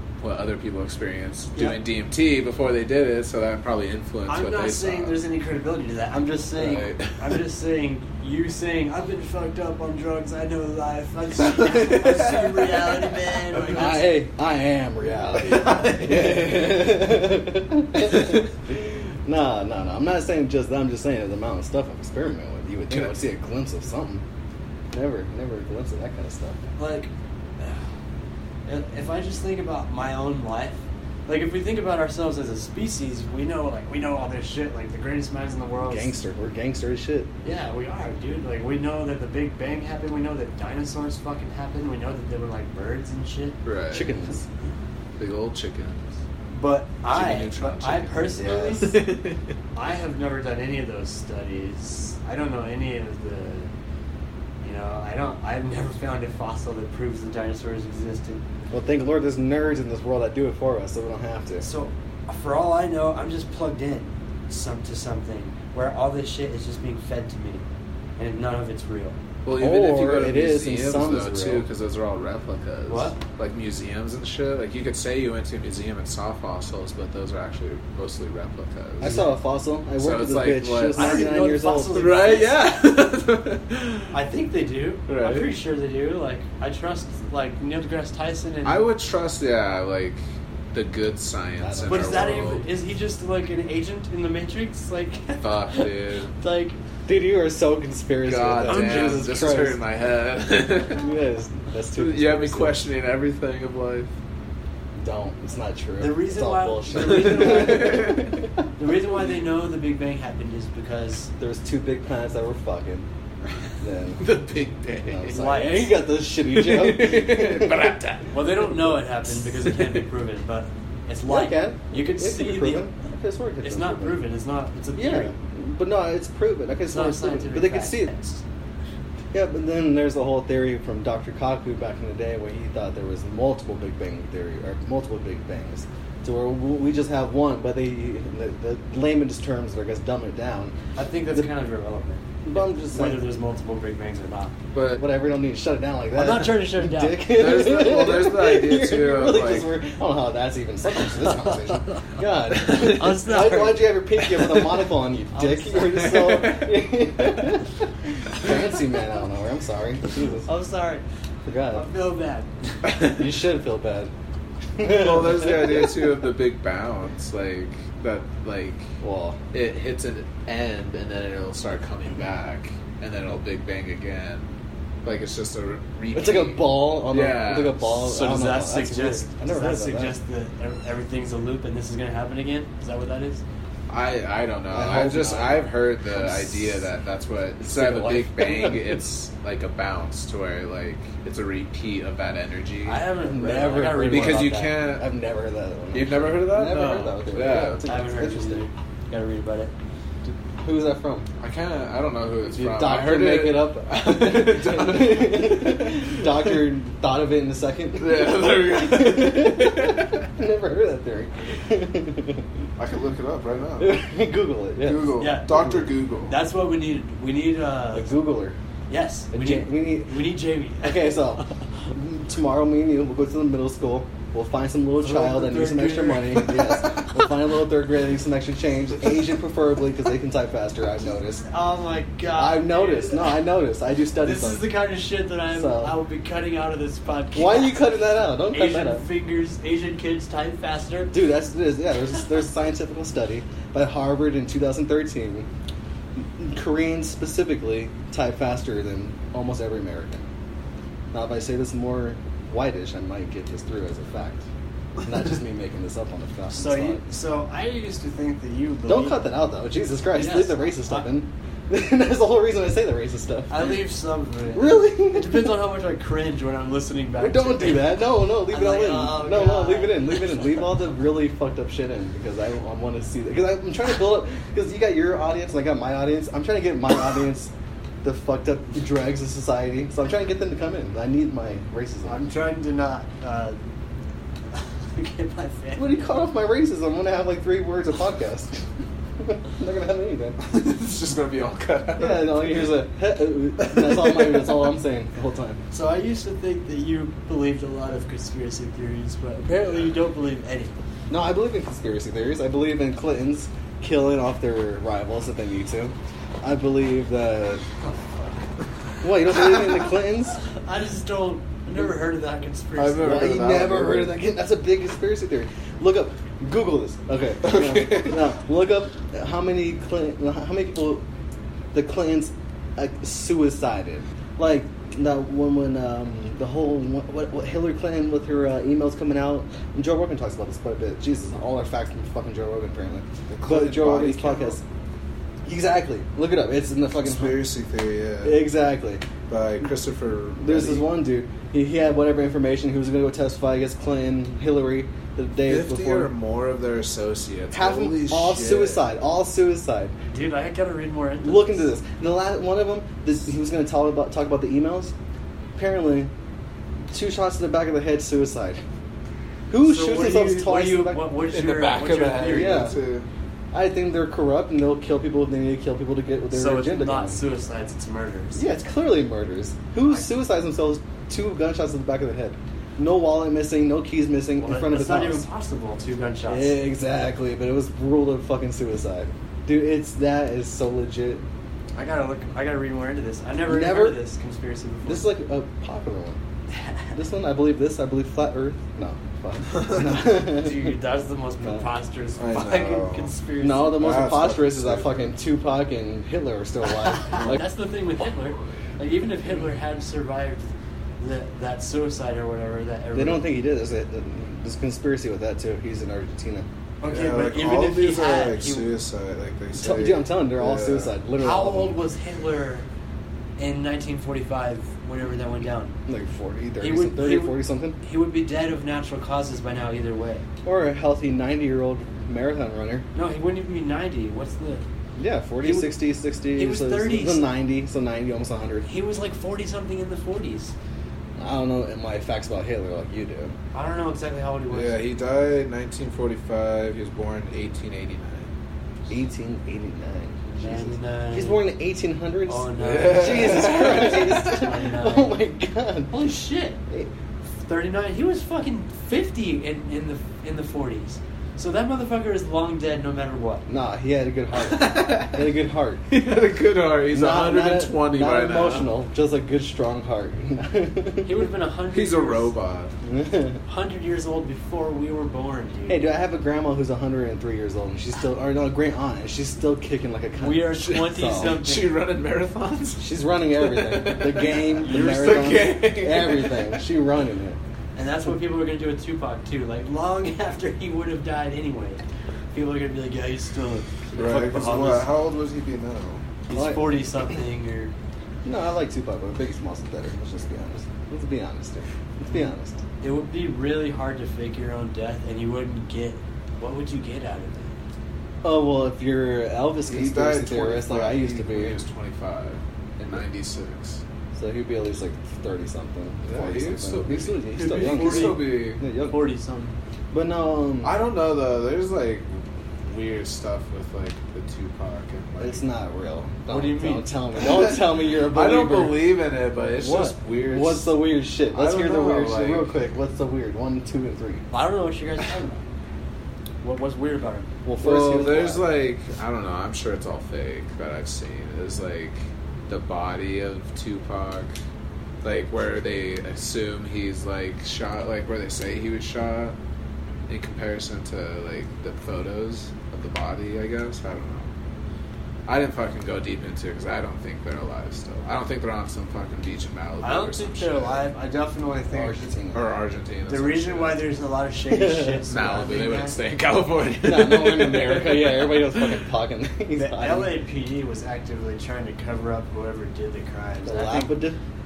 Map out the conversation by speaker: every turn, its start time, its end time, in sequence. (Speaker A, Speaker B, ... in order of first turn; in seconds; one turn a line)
Speaker A: 0.2-5.2
Speaker B: 4.3-14.1
Speaker A: 6.6-7.4
Speaker A: 11.4-13.3
Speaker C: 13.6-24.2
Speaker A: 15.4-17.1
Speaker C: 24.9-26.6
Speaker B: 26.8-27.8
Speaker B: 28.6-36.1
Speaker C: 35.8-37.3
Speaker B: 37.4-43.6
Speaker A: 43.6-44.2
Speaker C: 43.9-44.4
Speaker A: 45.2-46.1
Speaker B: 46.5-49.0
Speaker A: 47.1-49.4
Speaker C: 48.4-49.0
Speaker B: 49.7-53.7
Speaker B: 54.6-58.4
Speaker C: 58.7-61.6
Speaker B: 61.6-67.6
Speaker B: 68.2-69.2
Speaker A: 69.4-79.2
Speaker C: 69.5-71.7
Speaker B: 72.9-73.2
Speaker C: 79.0-82.2
Speaker B: 79.0-79.4
Speaker A: 80.0-81.3
Speaker B: 80.9-82.6
Speaker A: 81.9-84.1
Speaker B: 84.1-88.9
Speaker A: 85.1-85.5
Speaker A: 88.6-90.2
Speaker A: 90.7-92.7
Speaker C: 91.6-92.6
Speaker B: 91.9-96.8
Speaker A: 95.4-96.3
Speaker C: 97.0-99.8
Speaker A: 98.2-101.0
Speaker B: 98.7-99.4
Speaker C: 101.0-102.8
Speaker A: 102.0-104.1
Speaker C: 105.0-108.5
Speaker B: 106.0-108.2
Speaker A: 106.9-108.3
Speaker B: 108.8-111.3
Speaker C: 111.4-113.0
Speaker C: 113.8-114.2
Speaker A: 114.2-115.5
Speaker C: 115.0-117.8
Speaker B: 115.3-116.0
Speaker A: 116.3-118.9
Speaker B: 118.3-122.9
Speaker A: 119.6-120.0
Speaker C: 121.3-124.3
Speaker B: 123.6-125.3
Speaker C: 125.0-128.1
Speaker B: 126.9-128.4
Speaker C: 129.3-140.7
Speaker B: 140.9-144.5
Speaker C: 142.4-143.2
Speaker A: 144.7-145.0
Speaker C: 144.9-160.5
Speaker B: 146.1-147.4
Speaker A: 147.3-149.7
Speaker B: 152.5-154.4
Speaker B: 155.3-156.1
Speaker A: 155.9-156.7
Speaker B: 160.4-161.0
Speaker C: 161.5-161.9
Speaker B: 161.7-162.9
Speaker C: 163.0-164.1
Speaker C: 164.8-165.9
Speaker A: 164.8-168.9
Speaker C: 169.0-169.4
Speaker A: 169.5-174.4
Speaker A: 175.0-178.1
Speaker C: 176.1-180.2
Speaker B: 178.1-183.4
Speaker A: 183.9-193.0
Speaker C: 184.7-186.8
Speaker C: 187.6-189.0
Speaker B: 192.8-194.5
Speaker C: 193.2-198.6
Speaker A: 194.0-195.1
Speaker A: 195.9-197.8
Speaker B: 197.9-199.7
Speaker C: 200.6-201.2
Speaker A: 201.4-206.5
Speaker C: 202.5-212.4
Speaker A: 208.0-210.2
Speaker A: 212.8-213.9
Speaker C: 213.8-215.2
Speaker A: 214.8-216.3
Speaker B: 215.2-218.1
Speaker C: 217.9-218.6
Speaker B: 218.9-221.5
Speaker C: 219.3-231.4
Speaker B: 225.0-226.7
Speaker B: 231.4-233.4
Speaker C: 232.3-234.7
Speaker B: 234.2-237.9
Speaker C: 235.5-236.0
Speaker C: 237.3-239.0
Speaker B: 238.5-241.1
Speaker C: 241.1-245.5
Speaker C: 246.2-250.2
Speaker C: 251.1-254.4
Speaker C: 255.0-257.0
Speaker B: 256.5-259.3
Speaker C: 258.9-263.5
Speaker B: 260.1-261.1
Speaker B: 263.5-270.6
Speaker C: 264.5-265.5
Speaker C: 267.2-277.5
Speaker C: 278.0-282.2
Speaker B: 282.0-283.6
Speaker B: 284.5-286.1
Speaker C: 285.8-288.6
Speaker C: 289.2-290.4
Speaker A: 290.4-292.7
Speaker C: 292.0-295.6
Speaker A: 293.6-294.6
Speaker B: 295.7-300.7
Speaker C: 301.1-307.6
Speaker C: 309.0-310.4
Speaker B: 310.6-313.1
Speaker A: 312.8-314.2
Speaker C: 313.0-321.0
Speaker A: 317.4-318.2
Speaker C: 321.7-334.6
Speaker A: 333.3-334.6
Speaker C: 335.4-337.4
Speaker A: 337.0-338.5
Speaker C: 338.2-339.0
Speaker A: 339.3-340.9
Speaker C: 340.4-346.1
Speaker A: 345.4-348.8
Speaker C: 347.5-349.9
Speaker B: 350.1-351.7
Speaker C: 351.2-354.9
Speaker C: 355.6-356.1
Speaker C: 356.9-358.6
Speaker C: 359.5-361.1
Speaker B: 359.6-362.7
Speaker A: 361.3-363.1
Speaker C: 362.3-362.8
Speaker C: 363.5-367.2
Speaker B: 366.3-368.4
Speaker C: 368.3-375.2
Speaker B: 374.4-376.5
Speaker C: 376.3-381.2
Speaker B: 381.8-385.1
Speaker C: 383.4-384.0
Speaker C: 384.9-386.2
Speaker B: 386.5-386.9
Speaker C: 386.9-390.7
Speaker B: 390.1-393.9
Speaker A: 392.2-393.1
Speaker C: 393.4-397.4
Speaker A: 393.7-395.0
Speaker B: 397.0-403.2
Speaker A: 397.1-397.4
Speaker C: 402.9-406.4
Speaker B: 406.8-408.7
Speaker A: 406.9-410.9
Speaker C: 409.6-411.8
Speaker B: 411.2-412.7
Speaker B: 413.4-415.7
Speaker C: 415.9-417.8
Speaker B: 416.6-420.2
Speaker C: 420.4-422.9
Speaker B: 422.9-424.6
Speaker C: 425.0-428.7
Speaker B: 425.4-425.8
Speaker B: 426.4-427.3
Speaker B: 428.6-430.5
Speaker C: 431.2-433.3
Speaker B: 433.5-434.8
Speaker A: 434.5-438.3
Speaker C: 438.9-445.9
Speaker B: 440.2-441.4
Speaker B: 442.3-445.2
Speaker A: 442.6-444.2
Speaker B: 445.9-446.6
Speaker B: 447.4-453.4
Speaker C: 453.5-455.9
Speaker A: 454.3-455.3
Speaker A: 455.9-458.7
Speaker C: 456.9-461.2
Speaker B: 461.0-462.3
Speaker A: 461.7-462.7
Speaker C: 462.8-463.4
Speaker B: 463.4-465.9
Speaker C: 465.7-471.4
Speaker B: 470.2-471.7
Speaker A: 470.7-476.6
Speaker C: 472.8-477.4
Speaker B: 477.8-481.8
Speaker B: 482.3-484.9
Speaker A: 483.9-486.0
Speaker B: 486.3-487.7
Speaker C: 486.3-486.8
Speaker C: 488.2-492.6
Speaker B: 492.8-497.5
Speaker C: 498.2-501.6
Speaker A: 499.7-503.8
Speaker C: 504.1-509.0
Speaker A: 506.0-508.6
Speaker B: 507.3-509.5
Speaker C: 509.9-510.7
Speaker A: 510.6-512.1
Speaker A: 512.7-515.4
Speaker C: 515.2-518.9
Speaker B: 516.3-517.0
Speaker A: 517.3-520.7
Speaker C: 519.6-524.2
Speaker A: 521.3-522.5
Speaker B: 524.3-525.4
Speaker B: 526.4-527.3
Speaker C: 527.4-528.5
Speaker A: 527.6-534.3
Speaker A: 535.0-539.4
Speaker A: 540.1-544.3
Speaker A: 545.3-550.9
Speaker B: 549.8-552.1
Speaker C: 551.7-552.4
Speaker A: 552.3-553.9
Speaker B: 553.1-556.0
Speaker C: 554.5-555.0
Speaker A: 555.1-558.8
Speaker C: 556.8-560.1
Speaker B: 559.5-564.0
Speaker C: 563.4-564.2